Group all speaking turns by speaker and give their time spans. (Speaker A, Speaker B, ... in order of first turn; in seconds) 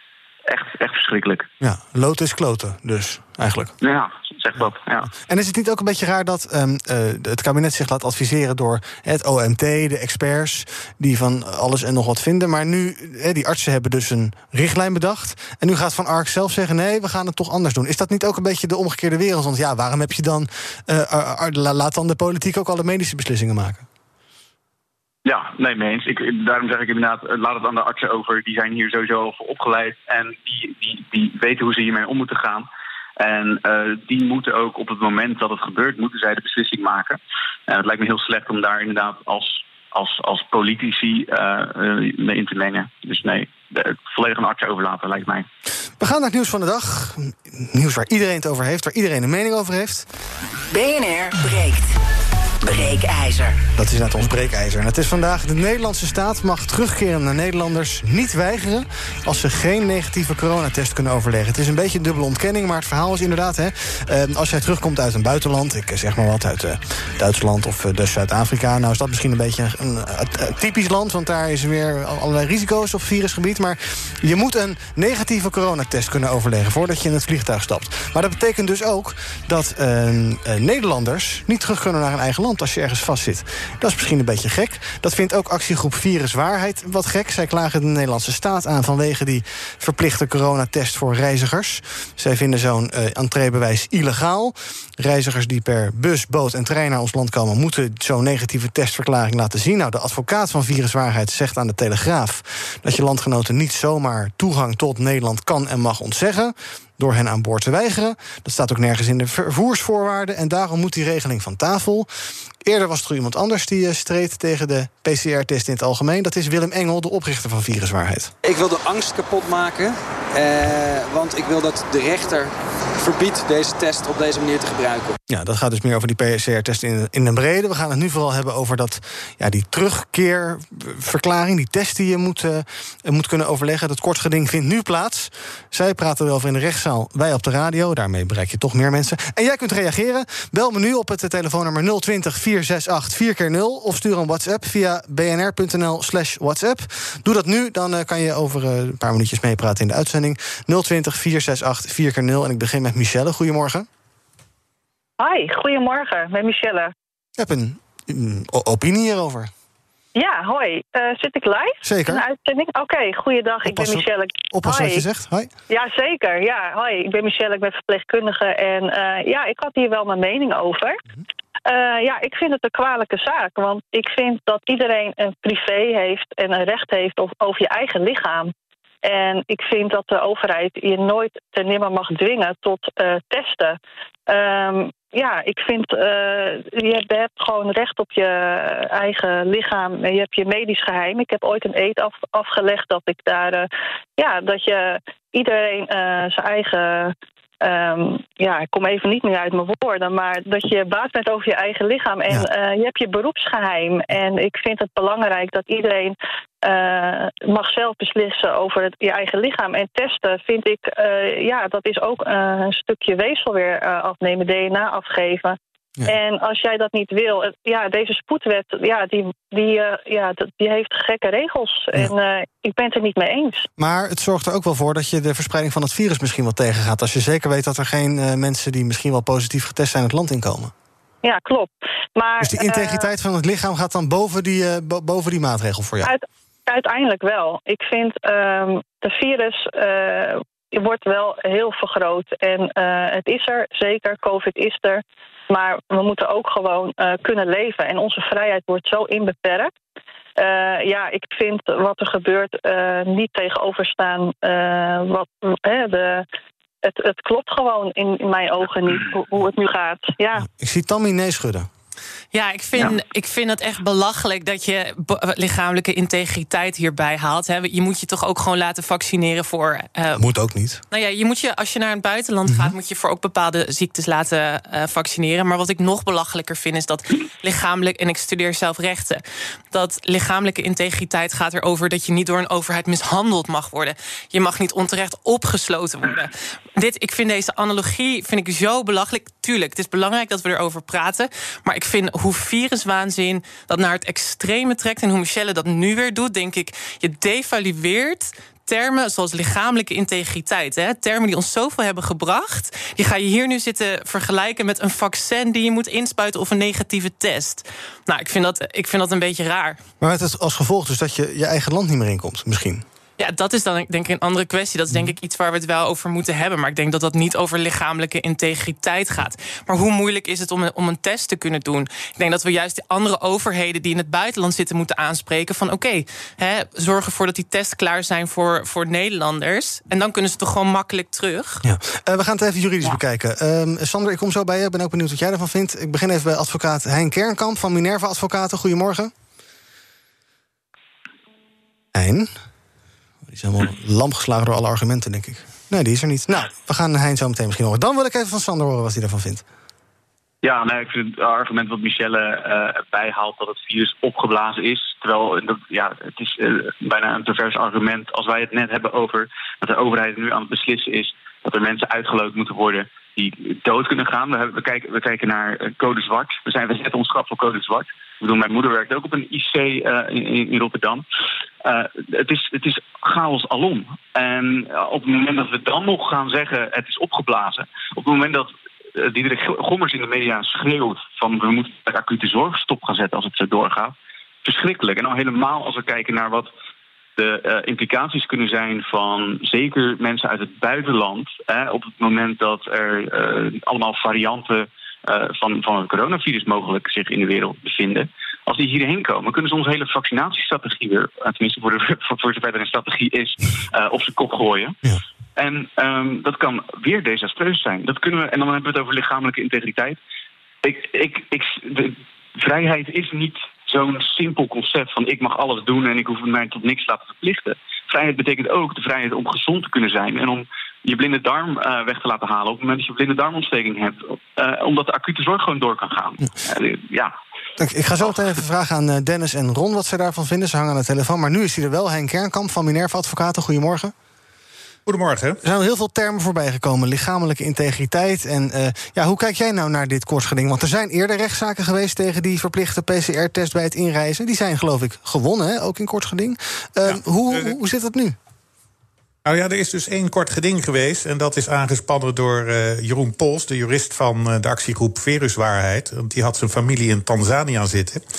Speaker A: 0.5-1.5, 3.8-5.1, 25.2-32.7, 33.2-45.5, 350.4-371.0, 371.6-386.5, 387.2-404.8, 405.4-410.0, 410.6-427.1
Speaker B: 1.6-3.7, 5.1-23.8, 46.0-50.1, 53.7-112.1, 112.6-118.3, 125.3-153.9, 157.4-159.5, 161.8-162.2, 163.6-165.5, 223.8-230.7, 232.4-236.1, 260.4-261.7, 270.2-270.8, 272.5-272.7, 310.0-312.8, 331.6-339.1, 341.9-342.3, 343.3-349.4, 427.6-433.9, 435.4-448.1
Speaker C: 50.7-51.9, 52.6-53.6
Speaker D: 118.4-125.2
Speaker E: 155.2-156.9, 160.2-165.0, 165.7-171.0, 171.6-178.5, 179.0-223.7, 231.2-233.1, 236.0-249.7, 250.4-256.2, 256.8-260.4
Speaker F: 262.3-270.2, 270.9-309.8, 313.2-331.6
Speaker G: 434.9-435.4, 446.9-447.5, 449.2-458.0